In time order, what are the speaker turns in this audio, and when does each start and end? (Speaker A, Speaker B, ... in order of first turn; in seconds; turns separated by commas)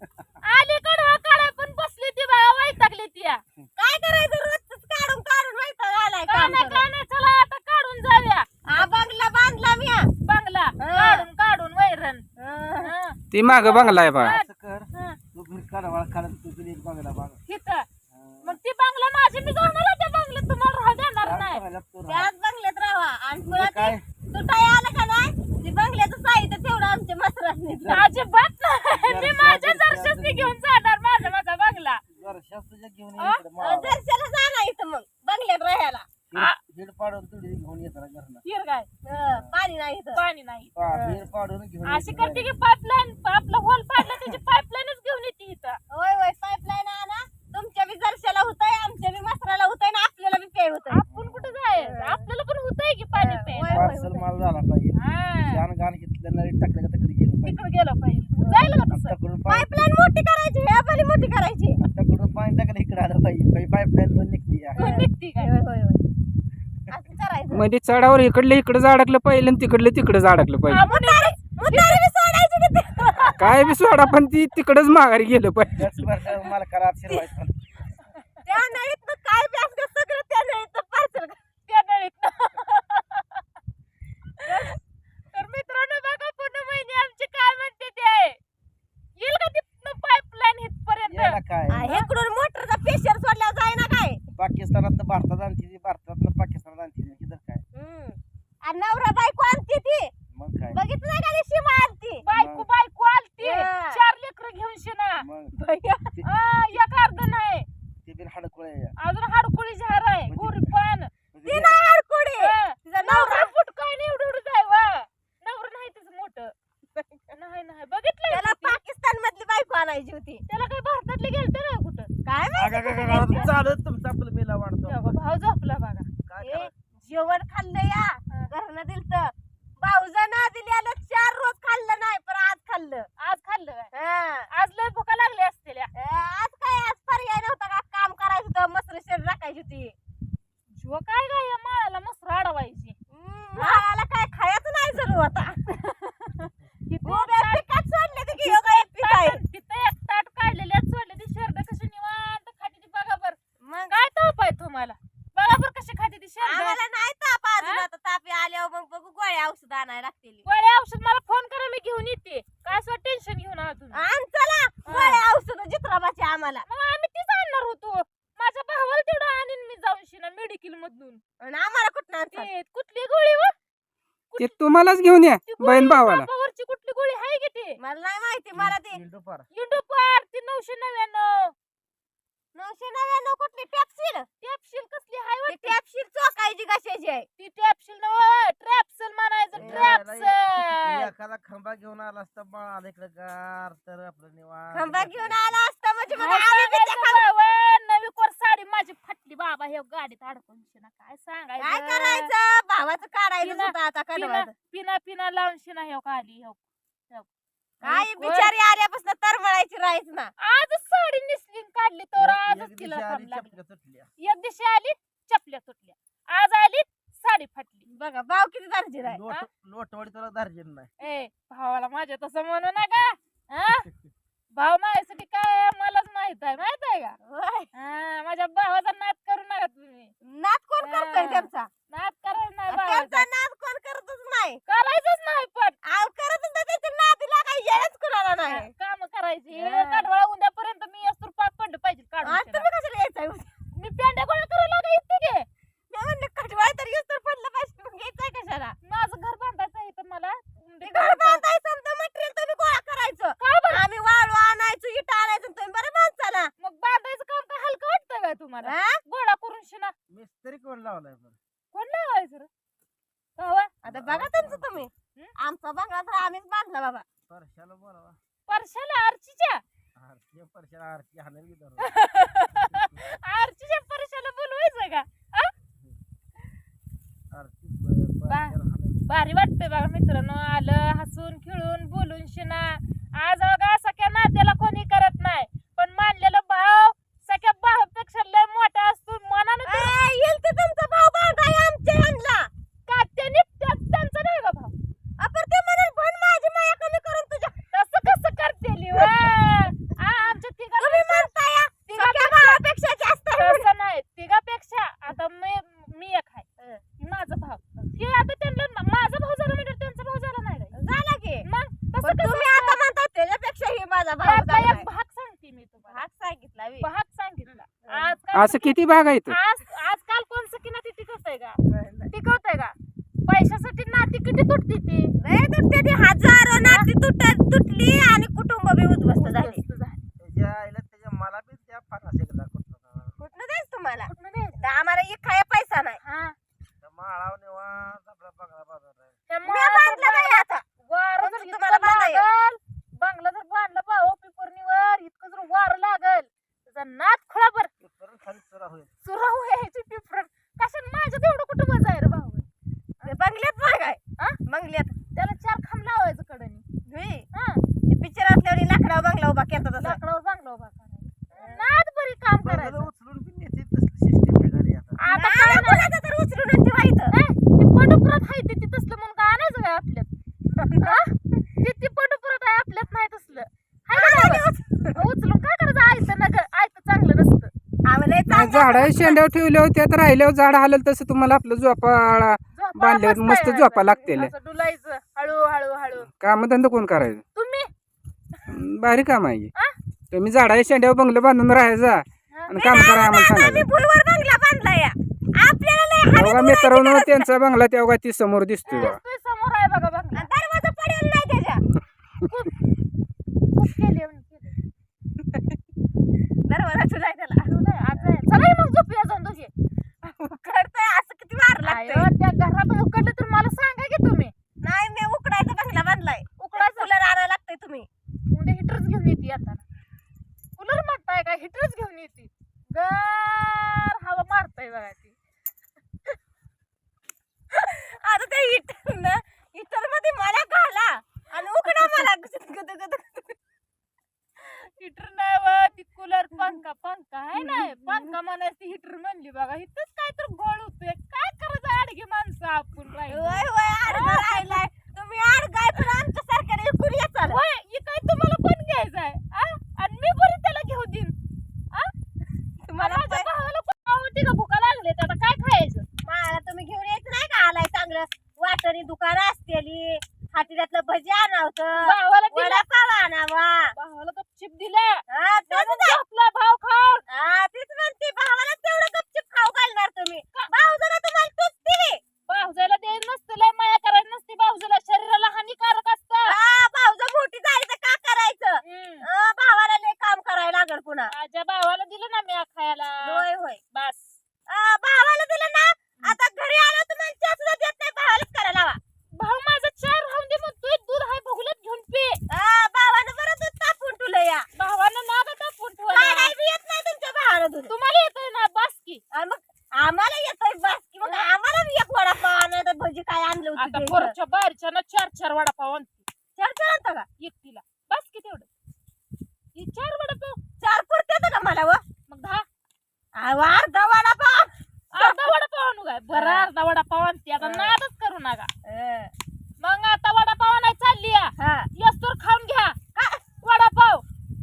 Speaker A: 0.4-3.4, Speaker B: 3.8-6.9, Speaker A: 6.3-9.0, Speaker B: 8.7-10.1, Speaker A: 10.2-12.2, Speaker B: 10.8-11.3, Speaker B: 12.4-12.9, Speaker A: 12.8-14.5, Speaker C: 13.3-14.3, Speaker D: 13.6-17.4, Speaker A: 17.4-17.9, Speaker D: 18.1-18.6, Speaker A: 18.4-21.6, Speaker D: 21.2-22.3, Speaker B: 22.1-28.1, Speaker D: 23.4-24.0, Speaker D: 27.8-28.1, Speaker A: 27.9-32.0, Speaker D: 28.9-30.6, Speaker D: 32.1-34.0, Speaker A: 33.2-33.4, Speaker B: 33.6-36.1, Speaker D: 36.3-38.4, Speaker A: 38.4-38.9, Speaker B: 39.0-40.2, Speaker A: 40.1-40.7, Speaker D: 40.8-42.5, Speaker B: 40.9-41.2, Speaker A: 41.8-45.8, Speaker B: 45.9-51.0, Speaker A: 50.9-53.9, Speaker D: 51.1-51.5, Speaker B: 51.7-52.2, Speaker B: 53.1-54.2, Speaker D: 53.7-57.6, Speaker A: 54.9-55.6, Speaker A: 57.4-59.1, Speaker B: 58.4-58.8, Speaker D: 58.9-59.7, Speaker B: 59.5-61.8, Speaker D: 61.8-64.8, Speaker B: 64.7-66.0, Speaker A: 64.8-65.5, Speaker B: 66.9-67.7, Speaker C: 67.5-70.8, Speaker A: 70.7-72.0, Speaker B: 70.7-73.5, Speaker A: 73.0-74.0, Speaker C: 73.4-76.0, Speaker D: 75.8-77.9, Speaker B: 78.4-81.4, Speaker A: 81.7-83.4, Speaker A: 84.4-84.8, Speaker A: 85.3-88.4, Speaker A: 89.2-92.1, Speaker D: 91.1-91.9, Speaker B: 91.7-94.2, Speaker D: 94.3-97.6, Speaker B: 97.7-100.1, Speaker D: 100.3-100.8, Speaker B: 100.7-102.2, Speaker A: 102.2-105.2, Speaker D: 102.3-102.7, Speaker B: 103.4-104.0, Speaker D: 105.2-105.5, Speaker B: 105.5-106.2, Speaker A: 106.2-107.7, Speaker D: 108.0-108.9, Speaker A: 109.0-111.1, Speaker D: 110.3-110.7, Speaker D: 111.3-111.8, Speaker B: 111.4-113.5, Speaker A: 112.4-116.5, Speaker B: 116.9-117.3, Speaker A: 117.3-118.8, Speaker B: 118.3-120.4, Speaker A: 120.5-122.1, Speaker B: 122.2-123.5, Speaker D: 122.6-125.2, Speaker A: 123.0-123.5, Speaker A: 124.8-126.1, Speaker D: 126.2-126.7, Speaker B: 126.4-133.1, Speaker A: 133.2-133.9, Speaker B: 133.9-134.5, Speaker A: 134.5-135.9, Speaker B: 135.9-139.9, Speaker A: 140.7-142.9, Speaker B: 143.1-145.9, Speaker A: 143.6-143.8, Speaker A: 146.9-147.6, Speaker B: 147.0-149.4, Speaker A: 148.3-153.4, Speaker B: 153.6-154.0, Speaker A: 153.9-156.8, Speaker B: 156.4-160.4, Speaker A: 157.6-157.8, Speaker A: 160.4-164.0, Speaker B: 163.9-166.7, Speaker A: 164.8-165.2, Speaker A: 166.7-171.2, Speaker B: 171.4-172.5, Speaker A: 172.3-173.5, Speaker A: 174.3-174.8, Speaker C: 174.4-176.3, Speaker A: 175.4-177.8, Speaker B: 177.8-179.0, Speaker D: 178.5-179.5, Speaker A: 179.5-181.5, Speaker B: 182.5-184.3, Speaker A: 184.4-185.8, Speaker B: 185.5-187.3, Speaker A: 187.4-191.1, Speaker D: 189.5-195.6, Speaker B: 189.5-190.0, Speaker B: 194.7-197.2, Speaker A: 196.1-202.3, Speaker B: 201.6-204.5, Speaker A: 203.4-207.3, Speaker B: 207.8-210.3, Speaker A: 207.8-208.5, Speaker A: 210.4-213.5, Speaker D: 212.2-214.1, Speaker A: 214.2-217.9, Speaker B: 217.9-219.2, Speaker D: 219.1-220.9, Speaker A: 221.0-223.9, Speaker A: 224.5-227.2, Speaker B: 227.2-227.7, Speaker A: 227.7-230.1, Speaker B: 230.2-231.7, Speaker A: 230.8-233.3, Speaker B: 232.7-234.6, Speaker A: 234.7-235.8, Speaker B: 235.8-238.7, Speaker A: 238.4-242.7, Speaker B: 239.5-240.1, Speaker B: 242.2-243.5, Speaker A: 243.7-245.4, Speaker B: 245.9-248.8, Speaker A: 248.8-251.4, Speaker B: 250.8-256.5, Speaker A: 253.4-253.8, Speaker A: 256.6-259.9, Speaker B: 258.6-259.0, Speaker D: 260.1-261.4, Speaker A: 261.7-262.5, Speaker A: 263.4-263.7, Speaker B: 263.8-267.1, Speaker D: 263.9-264.9, Speaker D: 267.3-268.2, Speaker A: 268.5-269.6, Speaker D: 269.9-271.9, Speaker A: 271.8-275.5, Speaker D: 277.3-279.0, Speaker A: 278.3-289.9, Speaker B: 289.6-292.5, Speaker A: 292.9-294.7, Speaker B: 295.2-297.6, Speaker A: 297.7-301.3, Speaker B: 298.9-299.3, Speaker B: 300.2-303.6, Speaker A: 301.9-302.6, Speaker A: 303.3-306.4, Speaker A: 307.0-310.8, Speaker B: 310.7-311.5, Speaker A: 311.4-312.8, Speaker B: 312.0-314.9, Speaker A: 314.2-316.0, Speaker B: 315.9-316.9, Speaker A: 316.8-321.6, Speaker B: 317.9-318.1, Speaker C: 318.3-319.4, Speaker B: 321.6-322.1, Speaker A: 322.1-322.7, Speaker A: 323.3-325.1, Speaker B: 325.2-329.6, Speaker A: 326.6-326.9, Speaker A: 329.1-330.0, Speaker D: 330.2-333.1, Speaker B: 333.2-336.0, Speaker A: 334.1-334.6, Speaker A: 336.0-336.4, Speaker D: 336.8-339.1, Speaker A: 339.3-347.7, Speaker B: 339.4-340.6, Speaker B: 341.2-342.2, Speaker D: 347.8-348.9, Speaker A: 349.0-352.5, Speaker B: 353.0-354.9, Speaker A: 355.1-356.6, Speaker B: 356.9-357.3, Speaker A: 357.3-357.6, Speaker B: 357.9-360.0, Speaker A: 359.8-362.9, Speaker B: 361.3-361.6, Speaker D: 362.4-365.0, Speaker A: 365.0-365.9, Speaker B: 365.1-367.1, Speaker A: 367.1-370.1, Speaker A: 370.7-374.4, Speaker B: 373.9-375.0, Speaker A: 374.9-377.5, Speaker B: 377.8-379.2, Speaker C: 378.3-384.3, Speaker A: 382.5-386.1, Speaker C: 386.1-387.2, Speaker A: 387.3-387.7, Speaker C: 388.5-389.5, Speaker C: 390.1-393.6, Speaker A: 392.3-392.7, Speaker B: 392.6-397.3, Speaker C: 396.1-399.0, Speaker A: 398.7-400.3, Speaker B: 400.1-401.6, Speaker A: 402.2-402.6, Speaker A: 403.5-404.5, Speaker B: 405.2-405.6, Speaker B: 406.5-407.5, Speaker A: 407.4-409.5, Speaker B: 410.0-412.1, Speaker A: 411.6-414.3, Speaker B: 414.6-417.9, Speaker A: 416.4-416.9, Speaker A: 418.3-419.6, Speaker A: 420.6-425.1, Speaker B: 427.5-433.4, Speaker A: 434.4-444.6, Speaker B: 437.3-438.1, Speaker B: 443.1-447.4, Speaker A: 447.3-451.1, Speaker B: 452.6-453.3, Speaker A: 452.8-455.9, Speaker B: 456.0-463.7, Speaker A: 461.8-462.6, Speaker A: 463.7-467.0, Speaker B: 465.1-466.0, Speaker B: 467.1-472.0, Speaker A: 472.3-476.3, Speaker B: 476.2-481.1, Speaker A: 478.6-479.1, Speaker A: 481.1-484.2, Speaker B: 483.0-483.6, Speaker B: 484.5-488.8, Speaker A: 489.2-492.2, Speaker B: 492.3-494.4, Speaker A: 494.5-496.3, Speaker B: 495.9-497.7, Speaker A: 497.7-499.0, Speaker B: 499.1-504.1, Speaker A: 501.0-501.3, Speaker A: 503.6-506.1, Speaker B: 506.3-507.1, Speaker A: 507.2-508.5, Speaker A: 509.5-510.4, Speaker B: 510.6-511.8, Speaker A: 512.1-512.4, Speaker B: 513.1-515.2, Speaker A: 514.9-518.5, Speaker B: 516.1-516.5, Speaker B: 517.4-517.7, Speaker B: 518.6-519.1, Speaker A: 519.6-522.8, Speaker B: 521.4-521.7, Speaker B: 522.9-523.2, Speaker A: 523.4-524.0